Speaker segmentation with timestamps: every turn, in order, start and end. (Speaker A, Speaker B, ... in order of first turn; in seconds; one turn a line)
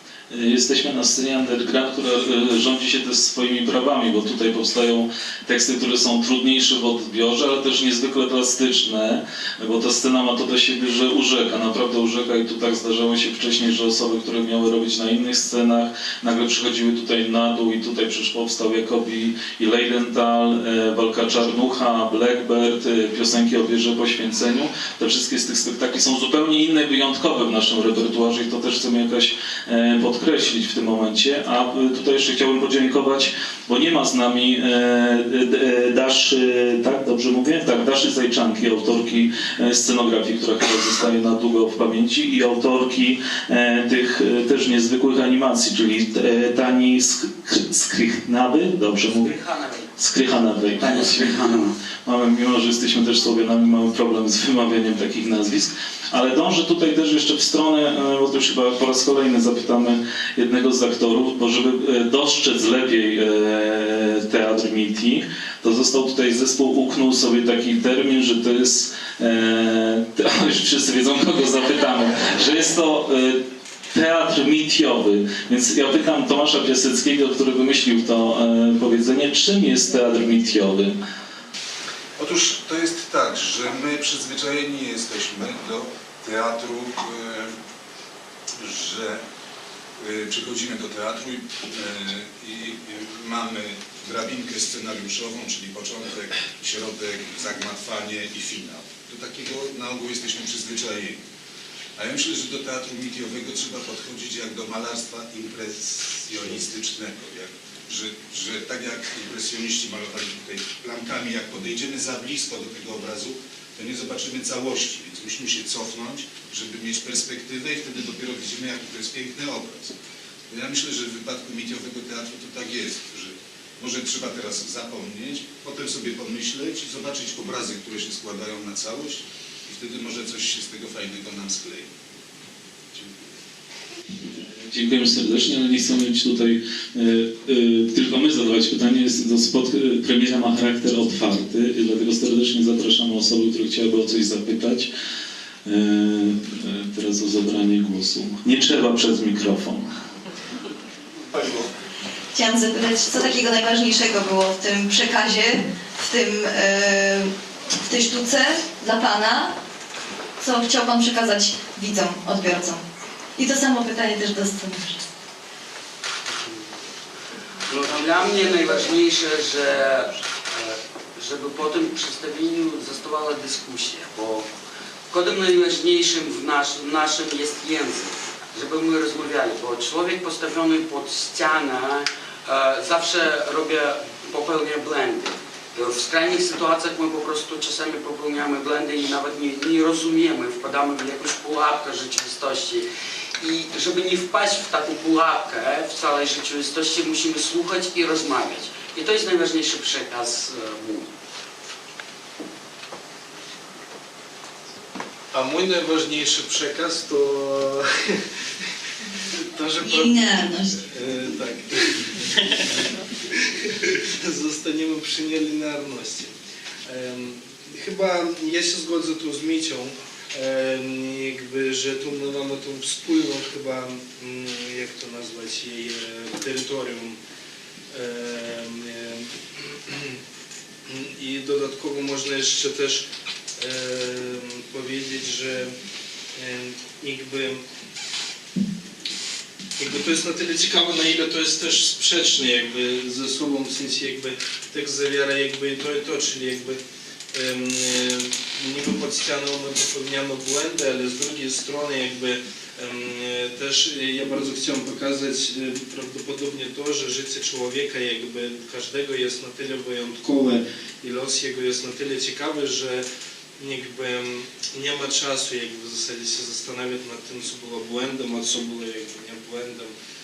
Speaker A: 0.3-49.3
Speaker B: 49.0-49.9
Speaker A: 50.0-51.4
Speaker B: 50.7-51.8
Speaker A: 52.0-81.0
Speaker C: 82.2-87.5
Speaker C: 88.6-89.2
Speaker C: 90.0-101.2
Speaker C: 102.0-119.9
Speaker C: 120.5-131.9
Speaker A: 134.6-144.9
Speaker A: 145.6-149.9
Speaker C: 151.3-151.6
Speaker D: 152.3-159.6
Speaker D: 160.4-162.8
Speaker D: 163.3-165.0
Speaker B: 166.3-166.7
Speaker B: 167.7-174.4
Speaker B: 175.1-192.8
Speaker B: 193.4-201.1
Speaker E: 205.3-208.2
Speaker E: 209.3-212.6
Speaker D: 209.8-210.8
Speaker E: 213.6-216.3
Speaker E: 216.8-227.2
Speaker E: 227.9-230.2
Speaker E: 230.9-235.7
Speaker E: 236.3-237.6
Speaker E: 239.8-246.8
Speaker E: 247.3-263.1
Speaker E: 263.6-269.9